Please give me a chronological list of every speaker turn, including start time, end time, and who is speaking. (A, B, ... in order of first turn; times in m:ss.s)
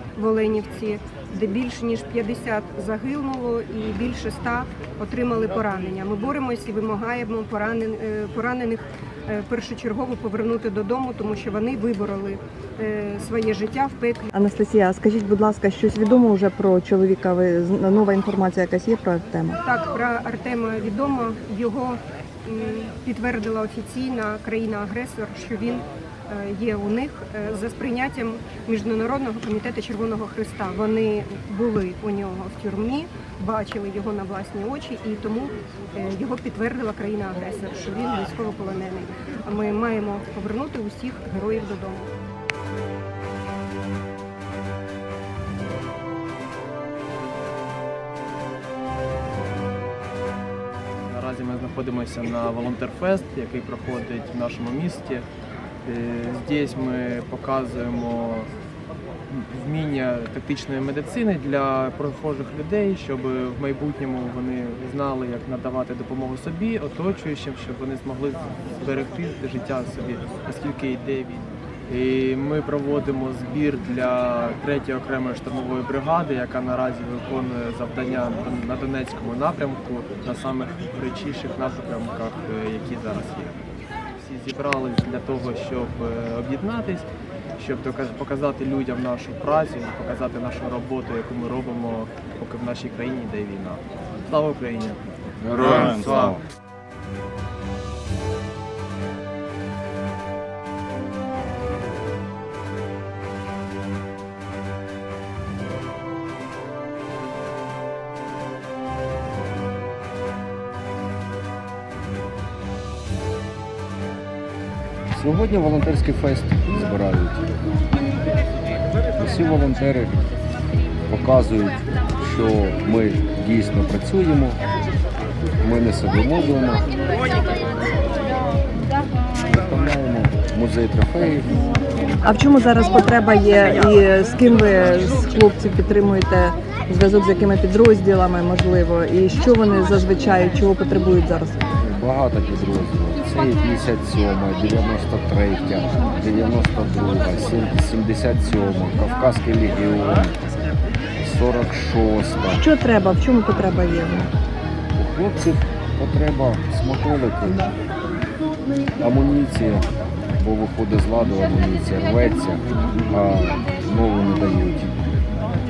0:00.2-0:14.3 A
0:14.4-0:19.4 B
0:19.6-0:42.1 A
0:51.0-0:55.3 C
0:55.8-0:58.5 C
0:59.3-1:23.6 C
1:24.2-1:27.0 C
1:27.6-1:36.5 C
1:55.1-1:57.6 D
1:59.2-2:00.3 D
2:01.1-2:04.6 D
2:05.6-2:07.4 D
2:09.5-2:11.7 D
2:12.3-2:21.5 B
2:21.8-2:30.4 D
2:31.2-2:32.6 D
2:32.6-2:34.2 B
2:35.0-2:37.7 D
2:39.0-2:39.9 D
2:40.4-2:45.0 D